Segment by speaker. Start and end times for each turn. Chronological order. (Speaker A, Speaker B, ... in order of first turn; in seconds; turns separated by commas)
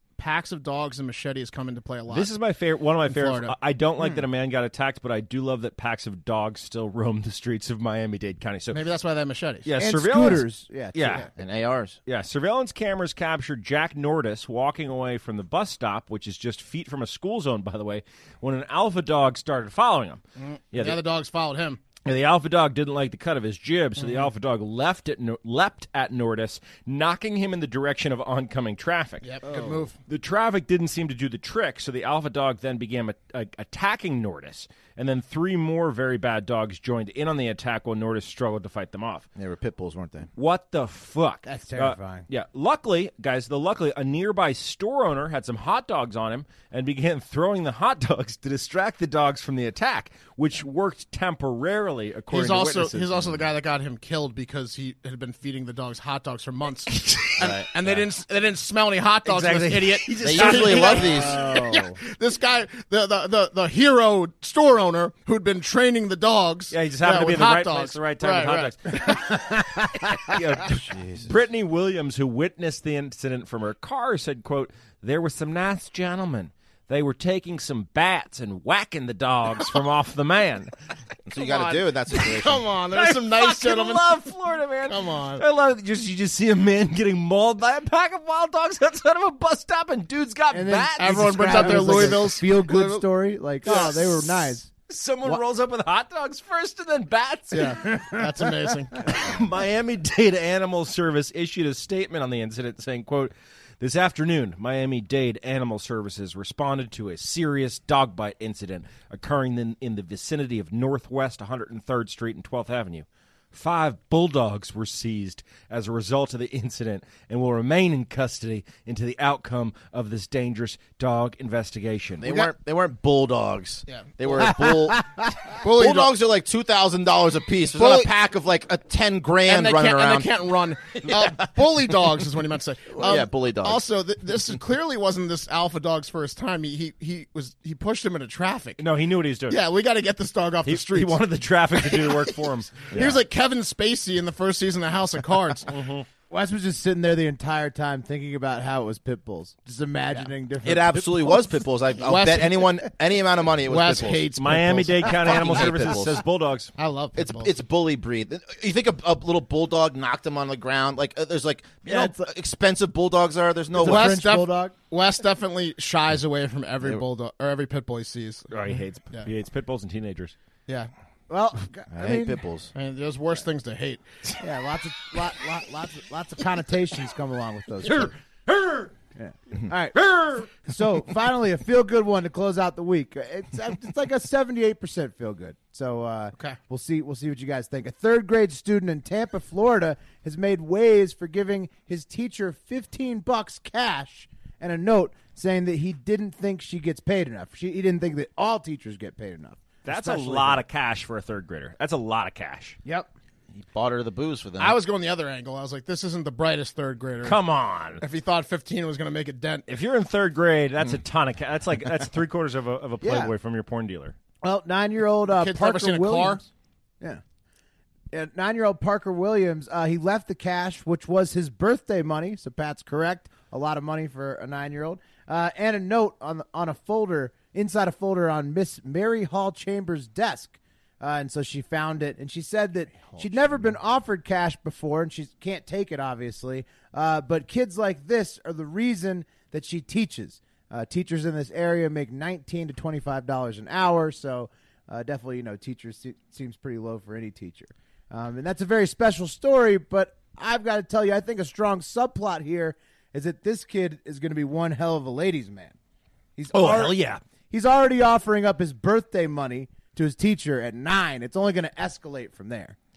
Speaker A: 0.2-2.4, Speaker B: 2.1-8.8, Speaker A: 3.1-3.5, Speaker A: 8.7-9.7, Speaker B: 9.7-11.2, Speaker C: 9.8-11.3, Speaker D: 11.3-12.0, Speaker B: 12.1-20.2, Speaker A: 20.4-21.8, Speaker B: 20.7-21.0, Speaker B: 22.1-29.3, Speaker A: 29.2-29.9, Speaker B: 30.1-39.3, Speaker D: 39.4-40.3, Speaker B: 40.4-53.3, Speaker C: 41.5-42.3, Speaker A: 52.3-69.1, Speaker B: 56.9-57.3, Speaker D: 57.4-57.7, Speaker B: 59.3-61.4, Speaker D: 60.2-61.4, Speaker C: 61.1-62.0, Speaker B: 66.7-80.7, Speaker C: 69.3-70.4, Speaker D: 70.7-71.3, Speaker D: 81.3-82.6, Speaker A: 81.4-84.2, Speaker B: 82.9-92.3, Speaker A: 84.9-85.4, Speaker C: 90.5-94.7, Speaker A: 91.0-93.0, Speaker B: 93.7-98.2, Speaker A: 97.5-99.1, Speaker B: 99.0-122.3, Speaker D: 122.2-130.3, Speaker A: 123.9-124.4, Speaker C: 124.4-125.3, Speaker A: 125.6-126.1, Speaker A: 127.8-128.1, Speaker A: 129.5-138.8, Speaker D: 130.9-131.3, Speaker D: 133.0-133.8, Speaker B: 138.8-139.6, Speaker A: 139.5-141.2, Speaker B: 140.7-143.1, Speaker A: 141.8-142.3, Speaker A: 142.9-145.8, Speaker D: 142.9-143.2, Speaker B: 145.7-146.1, Speaker C: 146.3-151.4, Speaker D: 150.6-154.3, Speaker A: 152.0-152.8, Speaker A: 153.7-155.7, Speaker B: 154.4-156.7, Speaker D: 155.0-156.2, Speaker A: 156.8-157.5, Speaker D: 157.2-164.2, Speaker C: 161.9-162.3, Speaker C: 163.7-164.7, Speaker A: 163.8-168.5, Speaker B: 168.5-170.3, Speaker C: 171.3-172.4, Speaker D: 171.9-172.7, Speaker A: 172.7-174.0, Speaker C: 174.4-178.1, Speaker B: 177.9-178.9, Speaker C: 179.2-200.6, Speaker B: 180.0-180.5, Speaker B: 199.9-202.8, Speaker C: 202.8-203.1, Speaker D: 203.5-204.8, Speaker A: 204.6-207.4, Speaker B: 207.2-208.0, Speaker A: 208.0-209.7, Speaker B: 209.7-214.2, Speaker C: 213.0-213.3, Speaker C: 214.4-216.5, Speaker A: 215.4-216.4, Speaker C: 218.1-255.8, Speaker C: 256.4-257.0, Speaker B: 256.5-257.2, Speaker C: 257.5-262.8